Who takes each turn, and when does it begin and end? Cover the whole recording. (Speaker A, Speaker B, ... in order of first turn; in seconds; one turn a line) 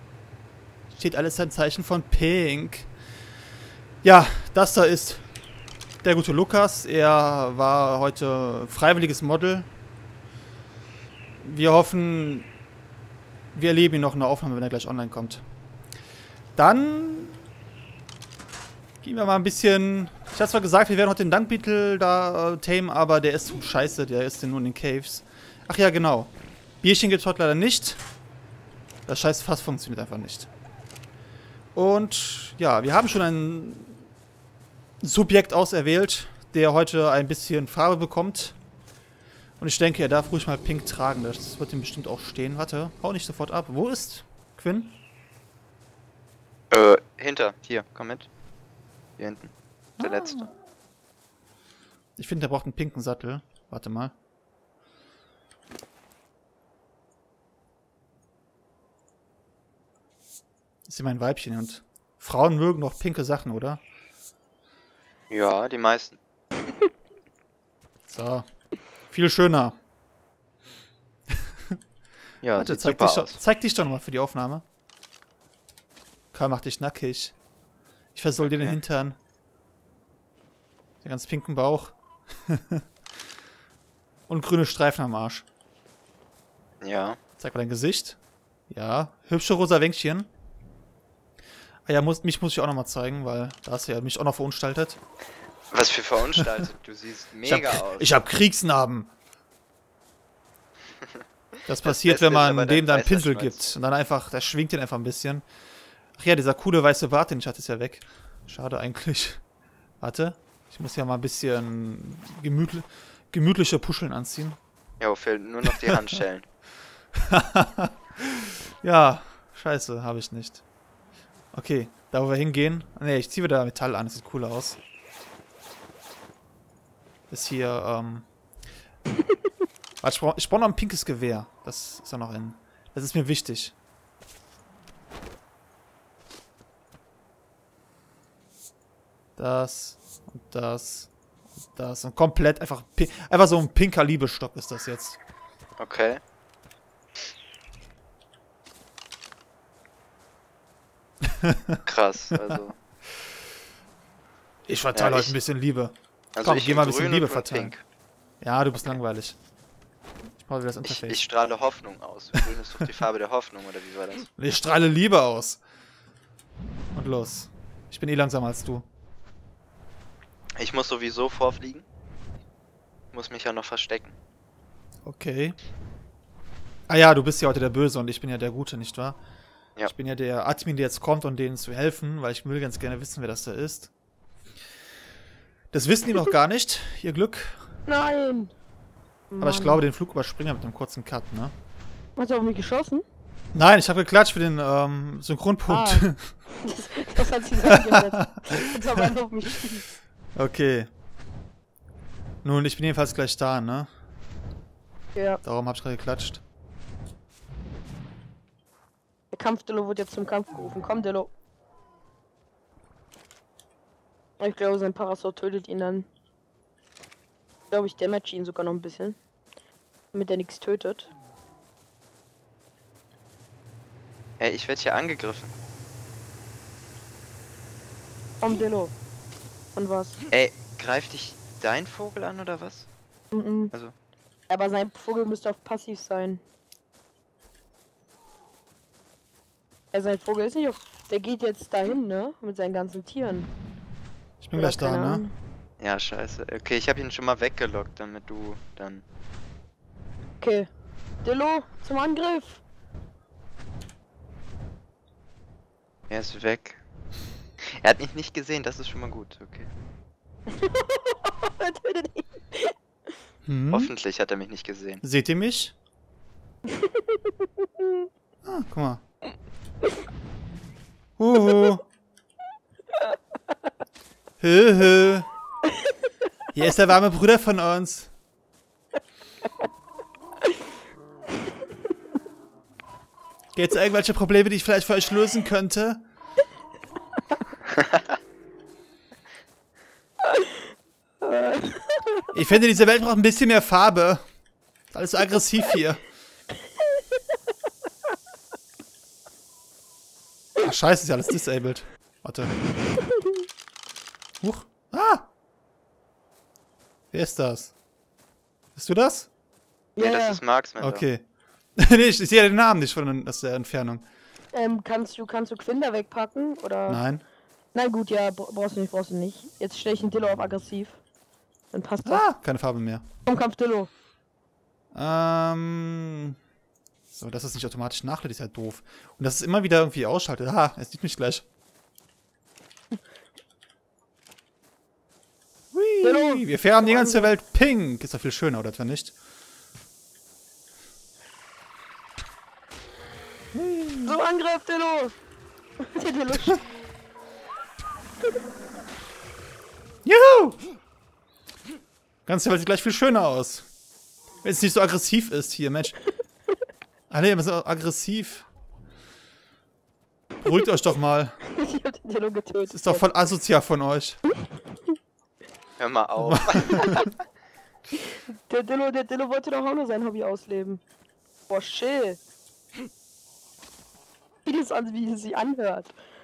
Speaker A: 0.9-2.9
Speaker A: 4.0-5.2
Speaker A: 6.0-9.7
Speaker A: 11.4-12.5
Speaker A: 13.5-15.4
Speaker A: 16.6-17.4
Speaker A: 19.0-26.3
Speaker A: 26.8-28.0
Speaker A: 29.1-30.5
Speaker A: 31.7-34.0
Speaker A: 35.0-38.5
Speaker A: 39.6-45.0
Speaker B: 46.7-48.3
Speaker B: 49.2-50.5
Speaker A: 50.0-50.5
Speaker A: 52.2-54.1
Speaker A: 60.9-63.8
Speaker B: 65.3-66.2
Speaker A: 68.1-68.5
Speaker A: 69.1-69.8
Speaker A: 71.3-71.8
Speaker B: 72.4-73.4
Speaker A: 72.5-74.6
Speaker A: 76.3-77.3
Speaker A: 78.1-79.2
Speaker B: 78.4-78.7
Speaker A: 81.0-82.8
Speaker A: 84.3-85.4
Speaker B: 86.8-87.2
Speaker A: 87.4-88.2
Speaker A: 88.7-90.3
Speaker A: 91.8-95.0
Speaker B: 95.7-98.2
Speaker A: 97.4-99.1
Speaker A: 101.7-105.4
Speaker B: 101.8-103.7
Speaker A: 106.2-109.4
Speaker A: 110.0-114.6
Speaker B: 115.0-116.4
Speaker A: 115.7-116.2
Speaker A: 117.2-120.6
Speaker A: 121.5-124.8
Speaker A: 127.3-128.2
Speaker A: 130.0-133.7
Speaker A: 139.4-141.1
Speaker A: 141.7-145.2
Speaker B: 145.8-146.2
Speaker A: 151.2-151.8
Speaker B: 151.8-152.8
Speaker A: 154.7-157.7
Speaker B: 154.9-155.3
Speaker B: 156.3-157.8
Speaker A: 158.4-159.3
Speaker A: 160.4-161.2
Speaker B: 160.8-164.3
Speaker A: 162.4-163.0
Speaker A: 164.4-165.6
Speaker A: 166.9-168.8
Speaker B: 170.6-171.8
Speaker B: 173.1-174.1
Speaker A: 175.0-175.6
Speaker A: 176.9-179.2
Speaker A: 179.8-183.9
Speaker A: 185.7-187.6
Speaker C: 187.9-188.5
Speaker C: 189.3-189.8
Speaker A: 189.4-191.5
Speaker C: 192.2-193.0
Speaker A: 193.5-196.3
Speaker C: 195.7-199.8
Speaker A: 197.6-198.7
Speaker A: 200.3-200.9
Speaker A: 202.4-203.9
Speaker C: 205.1-205.4
Speaker A: 205.4-206.4
Speaker C: 209.3-211.3
Speaker C: 214.4-216.1
Speaker C: 217.7-219.2
Speaker C: 220.1-221.1
Speaker B: 224.4-225.5
Speaker C: 228.4-228.9
Speaker C: 229.8-230.2
Speaker B: 230.3-232.9
Speaker C: 233.3-233.7
Speaker C: 234.5-236.4
Speaker C: 239.9-243.5
Speaker A: 244.4-245.2
Speaker C: 244.5-245.3
Speaker B: 245.8-249.0
Speaker C: 250.4-250.7
Speaker C: 251.2-252.6
Speaker B: 256.1-256.8
Speaker B: 257.6-259.7
Speaker C: 260.5-262.7
Speaker A: 263.4-263.9
Speaker B: 263.7-265.0
Speaker A: 265.0-265.7
Speaker C: 266.7-268.1
Speaker A: 268.4-269.0
Speaker A: 271.2-271.8
Speaker A: 274.4-275.3
Speaker A: 276.5-278.1
Speaker A: 283.5-286.0
Speaker C: 291.2-292.3
Speaker A: 292.3-294.2
Speaker A: 294.9-296.0
Speaker A: 300.6-302.6
Speaker A: 304.4-305.3
Speaker A: 307.1-307.7
Speaker A: 308.8-309.3
Speaker C: 310.0-310.4
Speaker B: 310.0-311.0
Speaker A: 310.8-311.2
Speaker A: 311.8-314.1
Speaker C: 314.5-317.0
Speaker A: 316.9-317.2
Speaker C: 317.7-321.0
Speaker C: 321.7-322.2
Speaker A: 322.0-323.0
Speaker C: 323.2-323.9
Speaker A: 324.9-326.4
Speaker A: 327.1-331.4
Speaker A: 335.7-339.1
Speaker C: 336.0-337.3
Speaker A: 343.5-344.2
Speaker C: 344.0-345.1
Speaker C: 345.8-346.6
Speaker A: 350.0-350.6
Speaker A: 352.2-353.6
Speaker A: 354.4-355.9
Speaker A: 357.1-358.4
Speaker A: 360.4-361.4
Speaker C: 361.5-363.1
Speaker A: 362.7-364.2
Speaker B: 365.8-367.1
Speaker A: 366.2-366.8
Speaker C: 368.4-370.8
Speaker C: 371.5-372.2
Speaker C: 374.4-375.9